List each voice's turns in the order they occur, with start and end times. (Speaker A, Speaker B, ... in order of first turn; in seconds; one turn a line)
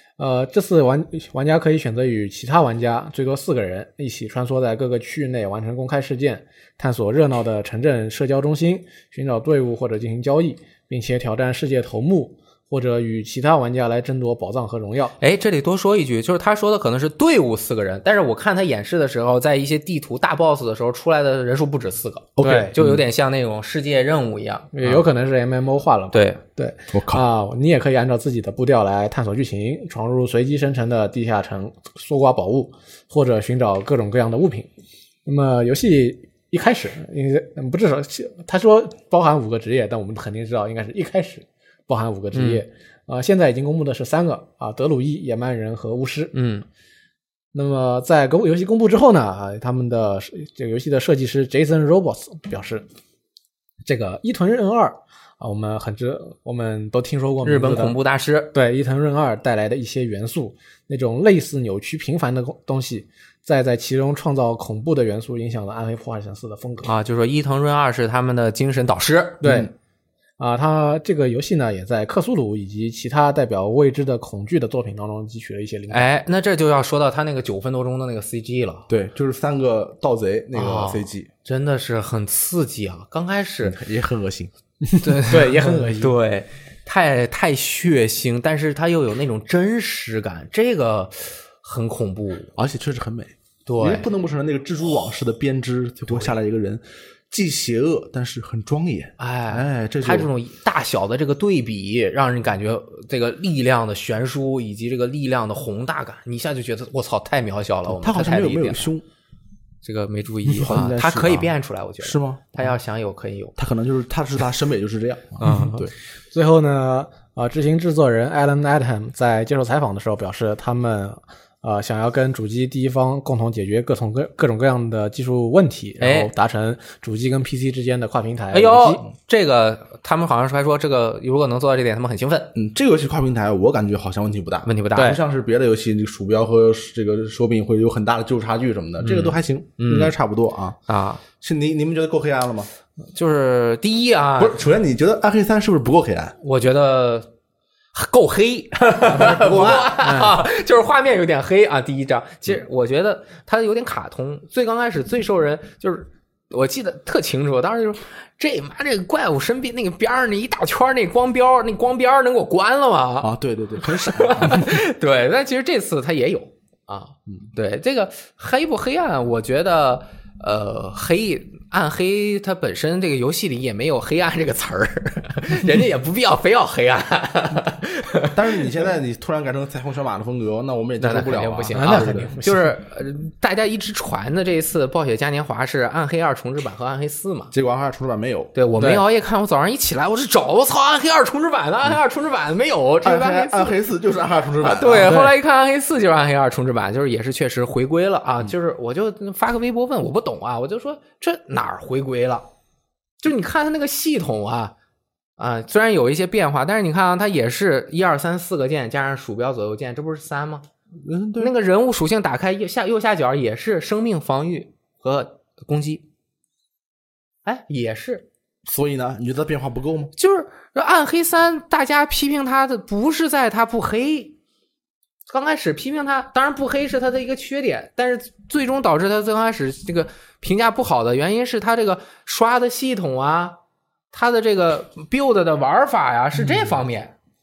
Speaker A: 0.2-15.2
Speaker B: 15.2-25.0
Speaker C: 22.4-23.0
Speaker A: 22.4-22.7
Speaker A: 24.7-34.7
Speaker B: 26.1-26.4
Speaker C: 26.9-27.2
Speaker A: 35.2-46.4
Speaker B: 42.3-42.6
Speaker B: 46.3-46.6
Speaker A: 47.5-52.9
Speaker A: 53.9-58.0
Speaker B: 57.4-58.5
Speaker A: 58.5-66.9
Speaker B: 66.8-69.4
Speaker A: 69.4-69.7
Speaker C: 69.4-69.7
Speaker A: 70.4-76.1
Speaker B: 75.9-78.9
Speaker C: 78.9-81.3
Speaker B: 80.5-83.8
Speaker C: 83.6-84.5
Speaker A: 84.9-86.1
Speaker B: 85.0-92.5
Speaker C: 92.5-100.3
Speaker B: 93.7-94.1
Speaker B: 99.2-108.9
Speaker C: 107.9-109.0
Speaker B: 109.8-113.5
Speaker C: 110.5-112.6
Speaker C: 113.6-115.9
Speaker B: 115.4-115.8
Speaker A: 116.3-129.0
Speaker B: 126.0-126.3
Speaker B: 128.5-132.5
Speaker C: 132.5-140.8
Speaker B: 134.6-135.2
Speaker B: 139.0-140.1
Speaker B: 140.9-141.2
Speaker C: 141.3-142.7
Speaker B: 143.1-144.6
Speaker C: 144.4-146.3
Speaker B: 146.4-147.3
Speaker B: 147.9-178.3
Speaker C: 149.1-149.9
Speaker A: 150.0-150.4
Speaker C: 163.2-164.7
Speaker C: 178.3-182.3
Speaker B: 181.0-187.5
Speaker A: 181.7-182.8
Speaker C: 187.5-188.5
Speaker B: 188.5-193.8
Speaker A: 188.8-189.0
Speaker C: 193.0-195.3
Speaker B: 194.6-202.5
Speaker B: 203.2-204.7
Speaker B: 205.4-210.7
Speaker C: 211.0-211.5
Speaker B: 211.4-216.1
Speaker B: 217.4-218.2
Speaker C: 218.7-220.1
Speaker B: 220.2-224.3
Speaker B: 225.3-233.6
Speaker B: 234.1-237.1